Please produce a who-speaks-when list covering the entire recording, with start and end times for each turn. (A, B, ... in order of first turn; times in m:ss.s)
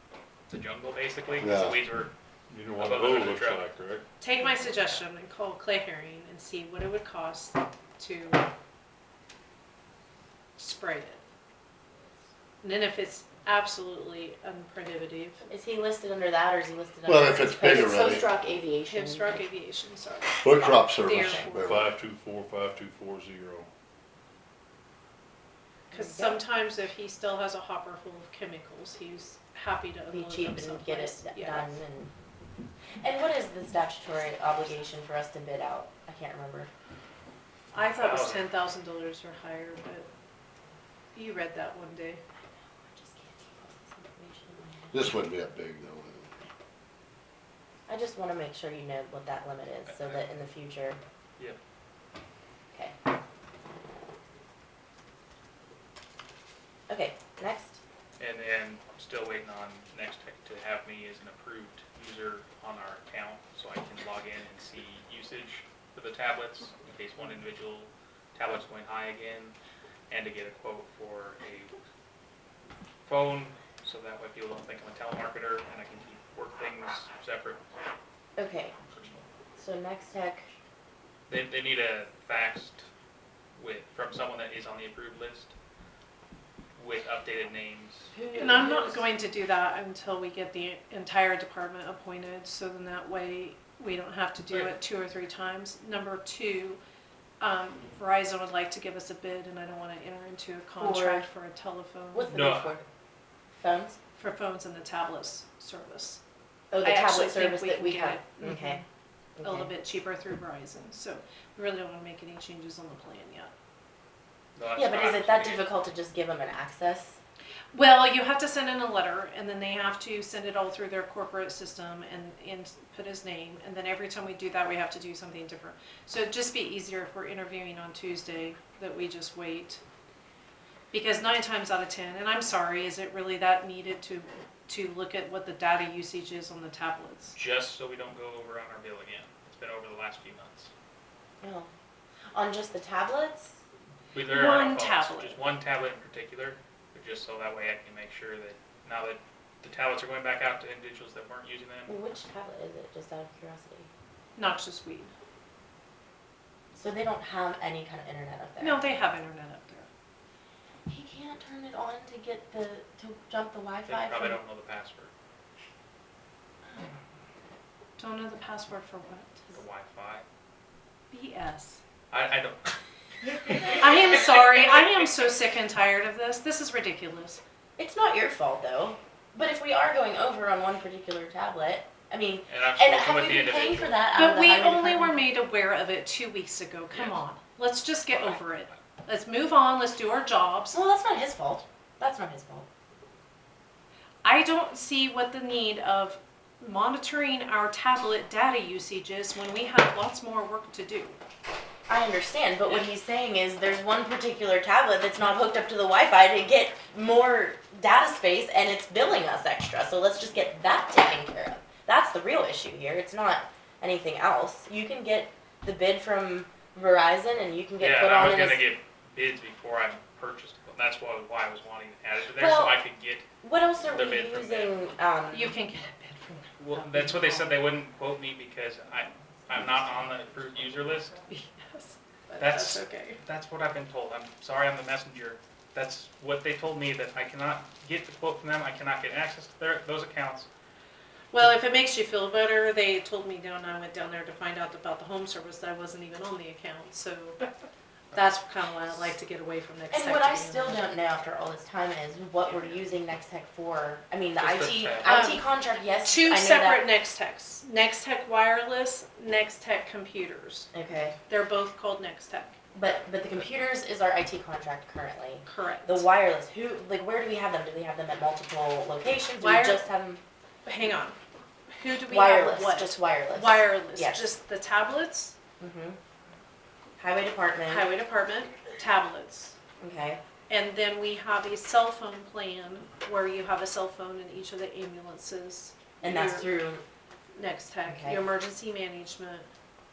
0:00.5-0:02.1 A
0:01.4-0:01.8 B
0:02.5-0:04.0 C
0:02.8-0:03.6 A
0:04.2-0:08.4 D
0:10.6-0:11.2 D
0:12.6-0:15.4 D
0:15.5-0:19.4 E
0:17.0-0:18.3 B
0:18.9-0:21.9 D
0:20.4-0:21.8 B
0:21.1-0:21.5 E
0:21.6-0:23.7 C
0:25.9-0:31.8 D
0:25.9-0:26.4 E
0:30.1-0:32.1 E
0:33.0-0:36.7 E
0:37.7-0:40.1 D
0:38.0-0:38.5 A
0:41.1-0:42.2 D
0:42.6-0:45.1 E
0:44.9-0:46.4 B
0:47.9-0:51.0 E
0:49.8-0:50.2 A
0:56.9-0:57.8 E
0:58.2-1:09.5 A
1:10.1-1:11.7 A
1:13.0-1:17.6 A
1:18.4-1:18.7 E
1:18.9-1:19.2 A
1:19.6-1:20.5 E
1:21.3-1:22.8 A
1:23.5-1:25.5 A
1:26.8-1:28.4 A
1:28.1-1:29.0 E
1:28.4-1:36.8 D
1:37.4-1:42.3 D
1:40.8-1:41.2 E
1:42.1-1:42.8 E
1:42.3-1:42.8 A
1:43.5-1:44.0 E
1:44.2-1:46.2 D
1:46.7-1:48.8 E
1:46.8-1:48.8 D
1:49.4-1:49.7 E
1:49.4-1:53.5 D
1:54.6-1:55.7 A
1:54.7-1:57.2 E
1:57.7-2:09.8 D
2:10.9-2:17.4 D
2:17.3-2:20.7 A
2:21.4-2:21.7 E
2:22.3-2:23.6 E
2:24.1-2:32.0 A
2:24.3-2:25.4 D
2:31.9-2:33.9 E
2:34.4-2:35.1 D
2:36.7-2:38.8 E
2:38.6-2:39.9 D
2:40.9-2:44.4 E
2:43.8-2:45.1 A
2:48.0-2:49.5 D
2:49.5-2:50.2 A
2:51.1-2:51.8 D
2:52.1-2:52.7 A
2:53.5-2:55.3 A
2:53.6-2:57.4 D
2:57.8-3:05.2 E
3:02.5-3:04.0 A
3:04.1-3:10.8 D
3:06.9-3:07.2 A
3:08.1-3:08.8 A
3:10.7-3:12.7 E
3:14.2-3:21.2 D
3:21.9-3:38.6 E
3:37.8-3:43.2 A
3:42.3-3:42.8 E
3:43.4-3:45.5 E
3:43.9-3:44.8 A
3:45.3-3:47.4 D
3:46.6-3:51.1 A
3:51.3-3:53.2 D
3:52.4-4:00.5 A
4:01.3-4:07.4 D
4:08.1-4:10.8 D
4:09.9-4:16.8 E
4:14.4-4:15.2 A
4:15.0-4:20.7 D
4:20.7-4:21.2 E
4:21.3-4:22.6 D
4:22.7-4:30.2 E
4:25.4-4:26.1 D
4:29.4-4:29.8 D
4:30.6-4:31.2 D
4:31.8-4:35.3 D
4:32.0-4:34.3 E
4:35.6-4:36.0 E
4:37.0-4:37.8 E
4:37.7-4:39.5 D
4:39.8-4:40.2 E
4:40.5-4:46.5 D
4:46.0-4:46.8 E
4:47.4-4:49.5 D
4:47.9-4:48.2 E